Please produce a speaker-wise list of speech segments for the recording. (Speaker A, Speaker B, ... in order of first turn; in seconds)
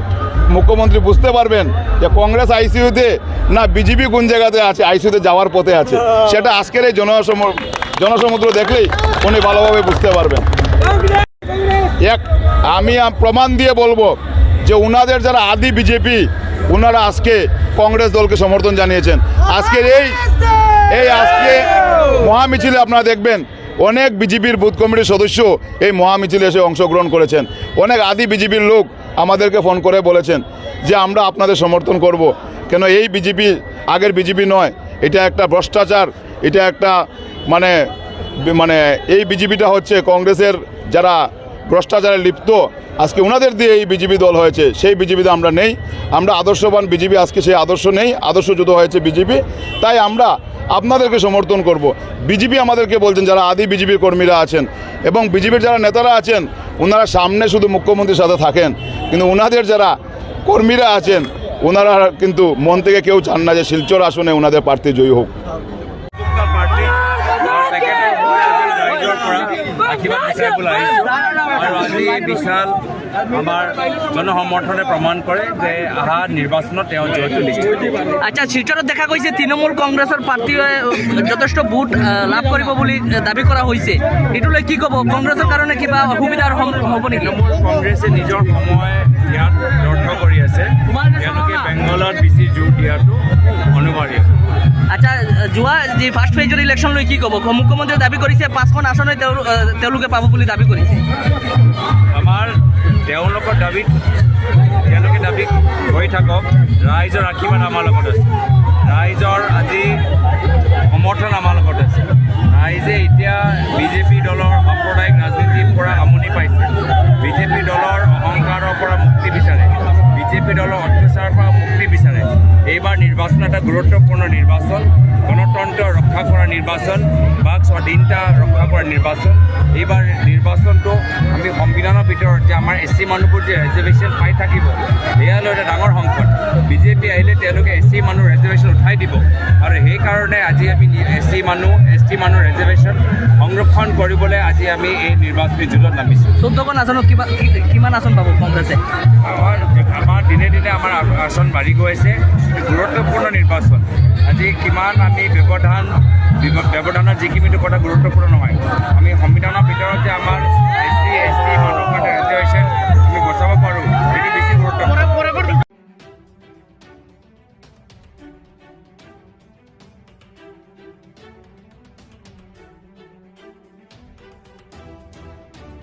Speaker A: 0.5-10.5, 12.0-20.2, 20.9-37.9, 38.4-65.3
Speaker B: 66.3-78.0, 87.1-94.4, 102.1-104.0, 104.8-108.3, 108.8-110.0, 110.9-146.4, 149.2-165.2
Speaker C: 78.2-87.3, 94.9-101.0, 146.4-148.8